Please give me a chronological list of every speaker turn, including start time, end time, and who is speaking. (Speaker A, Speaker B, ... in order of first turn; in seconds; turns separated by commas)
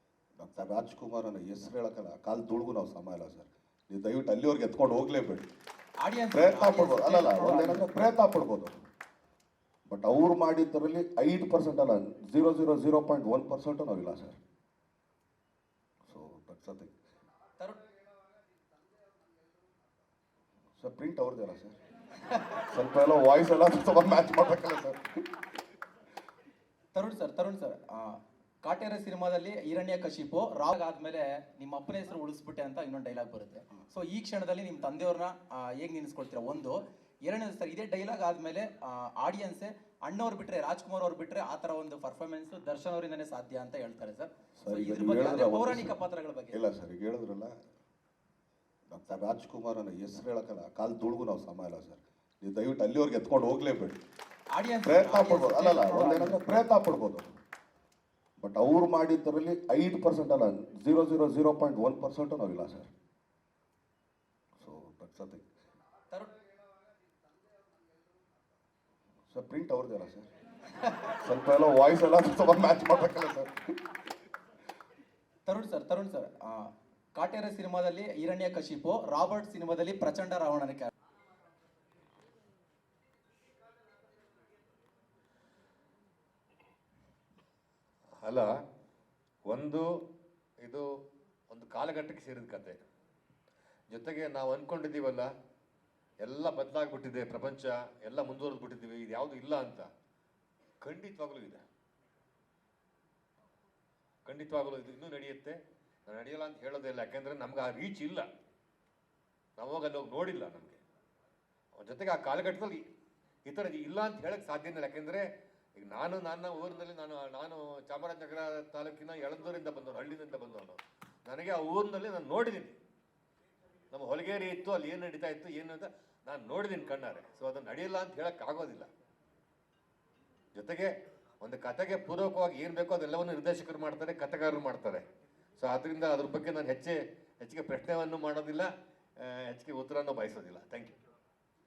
Speaker A: 0.4-5.5, Speaker B: 6.0-8.1, Speaker A: 6.3-8.8, Speaker A: 9.9-14.4, Speaker A: 16.1-16.9, Speaker B: 17.6-17.8, Speaker A: 20.8-21.8, Speaker B: 22.3-22.6, Speaker A: 22.7-25.2, Speaker B: 26.9-46.6, Speaker A: 44.6-45.9, Speaker A: 46.5-47.5, Speaker A: 48.9-54.0, Speaker B: 54.5-56.6, Speaker A: 54.8-57.3, Speaker A: 58.4-62.9, Speaker A: 64.6-65.5, Speaker A: 69.3-70.3, Speaker A: 71.1-73.9, Speaker B: 75.4-80.9, Speaker C: 88.2-88.5, Speaker C: 89.5-89.9, Speaker C: 91.5-92.8, Speaker C: 93.9-95.3, Speaker C: 96.2-99.9, Speaker C: 100.8-101.6, Speaker C: 104.2-108.2, Speaker C: 109.6-110.8, Speaker C: 111.7-112.8, Speaker C: 113.5-115.2, Speaker C: 115.8-122.8, Speaker C: 123.9-128.9, Speaker C: 130.6-135.0, Speaker C: 135.6-140.9